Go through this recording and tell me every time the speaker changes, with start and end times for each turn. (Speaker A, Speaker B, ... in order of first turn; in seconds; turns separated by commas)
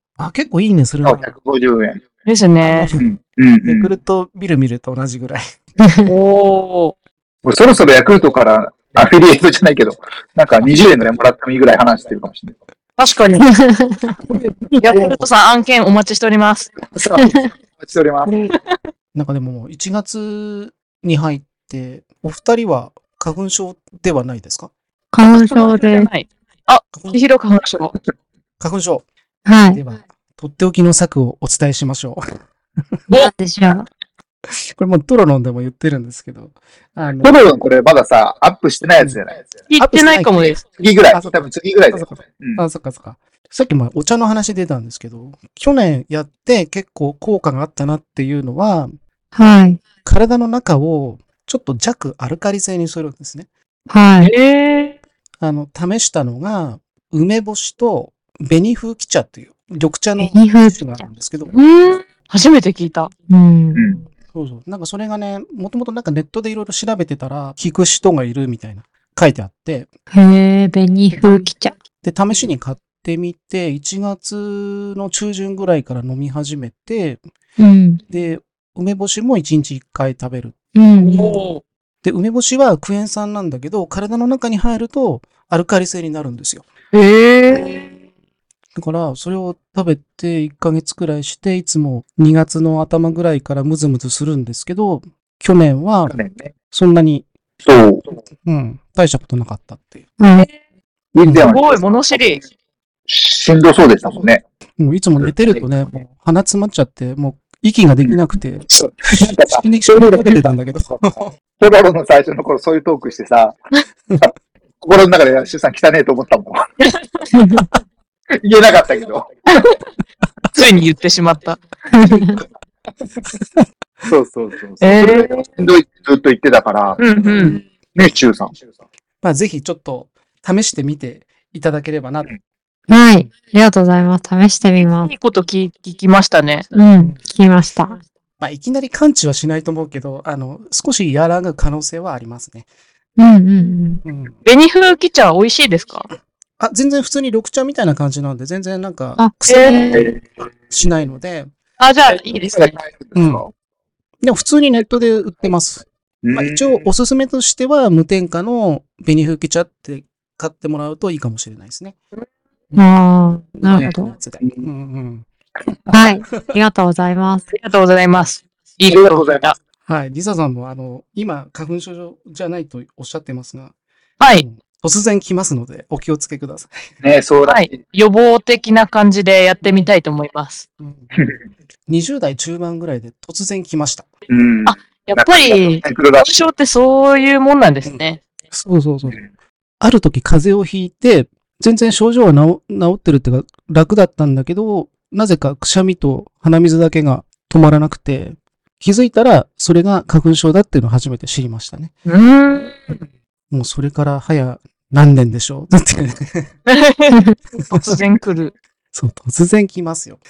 Speaker A: 0.2-1.3, Speaker B: 1.0-2.0, Speaker C: 2.2-2.9, Speaker A: 2.6-3.1, Speaker B: 3.0-3.9, Speaker A: 3.6-5.4, Speaker D: 5.8-6.1, Speaker C: 6.0-6.9, Speaker B: 7.4-12.5, Speaker C: 13.0-13.4, Speaker D: 13.4-14.1, Speaker A: 14.2-15.3, Speaker C: 14.8-16.7, Speaker B: 17.0-18.3, Speaker D: 17.2-17.4, Speaker D: 18.2-18.5, Speaker A: 19.1-24.7, Speaker D: 25.1-26.1, Speaker C: 25.3-27.9, Speaker A: 28.6-29.1, Speaker D: 29.4-29.8, Speaker A: 29.7-32.2, Speaker D: 33.1-33.9, Speaker A: 34.8-37.4, Speaker B: 37.2-39.4, Speaker C: 39.7-40.6, Speaker A: 39.8-40.5, Speaker B: 40.8-42.6, Speaker A: 41.1-41.4, Speaker A: 41.9-48.9, Speaker D: 49.4-49.8, Speaker A: 50.0-53.5, Speaker D: 53.9-54.3, Speaker C: 54.2-55.0, Speaker A: 55.4-61.5, Speaker D: 60.2-61.0, Speaker C: 61.5-63.1, Speaker D: 63.3-63.9, Speaker B: 63.7-64.0, Speaker A: 64.3-69.9, Speaker D: 70.1-71.8, Speaker A: 72.0-77.2, Speaker D: 77.6-78.0, Speaker A: 78.1-80.5, Speaker D: 80.7-81.4, Speaker C: 81.0-81.6, Speaker A: 82.0-86.6, Speaker C: 86.9-87.9, Speaker A: 88.7-96.2, Speaker B: 96.1-96.5, Speaker A: 96.7-97.3, Speaker B: 97.6-98.0, Speaker A: 98.4-100.0, Speaker D: 100.2-100.5, Speaker B: 101.1-102.3, Speaker A: 101.2-101.5, Speaker C: 101.5-102.4, Speaker B: 103.1-104.4, Speaker A: 104.8-111.3, Speaker B: 108.7-111.0, Speaker B: 111.6-113.6, Speaker B: 114.8-116.6, Speaker B: 118.4-119.3, Speaker C: 119.5-119.8, Speaker C: 120.5-121.6, Speaker D: 121.9-122.4, Speaker A: 123.3-123.6, Speaker B: 124.1-127.0, Speaker C: 124.8-125.5, Speaker C: 127.0-127.6, Speaker B: 127.9-128.6, Speaker A: 129.2-132.3, Speaker D: 132.9-135.1, Speaker C: 135.0-136.7, Speaker D: 136.7-138.0, Speaker A: 138.4-142.7, Speaker D: 143.2-144.0, Speaker A: 144.0-144.4, Speaker C: 144.4-146.1, Speaker A: 146.6-151.5, Speaker D: 149.2-150.1, Speaker C: 149.5-150.0, Speaker C: 151.8-152.8, Speaker B: 152.2-153.4, Speaker A: 153.1-153.5, Speaker A: 154.2-161.9, Speaker B: 156.2-156.8, Speaker D: 162.8-164.1, Speaker A: 163.6-165.2, Speaker B: 164.4-164.7, Speaker D: 165.9-167.4, Speaker C: 167.5-169.6, Speaker B: 168.9-169.5, Speaker A: 169.9-173.7, Speaker C: 174.2-174.4, Speaker A: 174.4-176.8, Speaker B: 177.0-177.8, Speaker C: 177.4-180.7, Speaker A: 180.8-181.1, Speaker A: 181.9-184.1, Speaker B: 184.3-186.3, Speaker C: 184.7-188.2, Speaker A: 188.5-189.2, Speaker A: 189.8-201.9, Speaker C: 202.1-203.0, Speaker A: 203.5-206.5, Speaker C: 206.7-207.2, Speaker A: 207.6-208.0, Speaker C: 207.7-208.5, Speaker A: 208.9-210.2